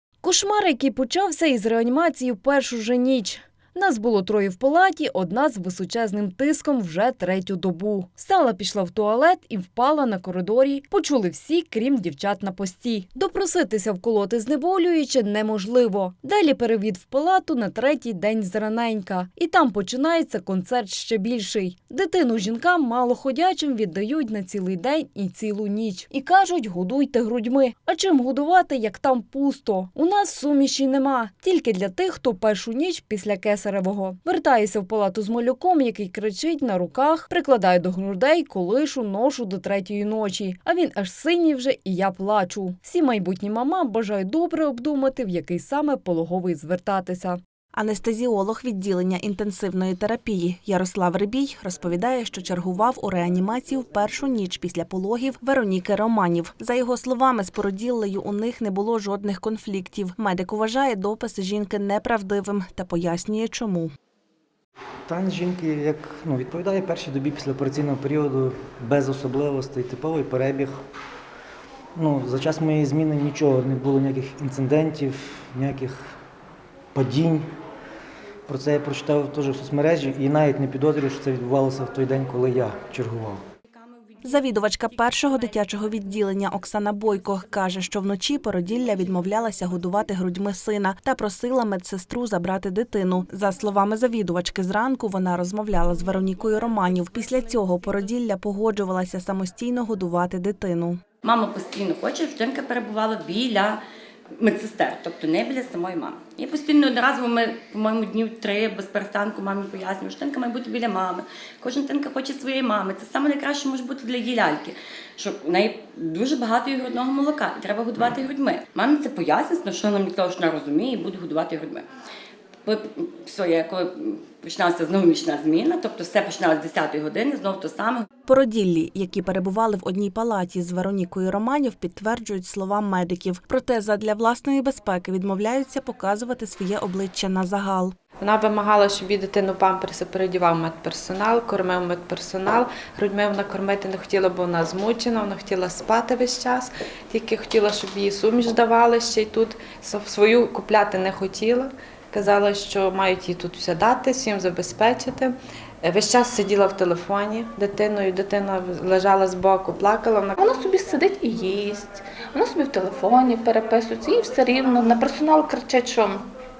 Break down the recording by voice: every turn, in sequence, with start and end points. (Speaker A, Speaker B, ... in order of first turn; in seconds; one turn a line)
Speaker A: 0.2-47.4
Speaker B: 47.7-63.9
Speaker C: 65.1-70.8
Speaker C: 72.0-76.2
Speaker C: 77.0-77.5
Speaker C: 78.5-83.4
Speaker B: 84.2-101.0
Speaker D: 101.2-103.8
Speaker D: 104.4-121.9
Speaker D: 122.7-128.1
Speaker B: 128.3-137.9
Speaker E: 138.3-151.7
Speaker E: 152.2-155.3
Speaker E: 155.9-160.3
Speaker F: 160.4-166.2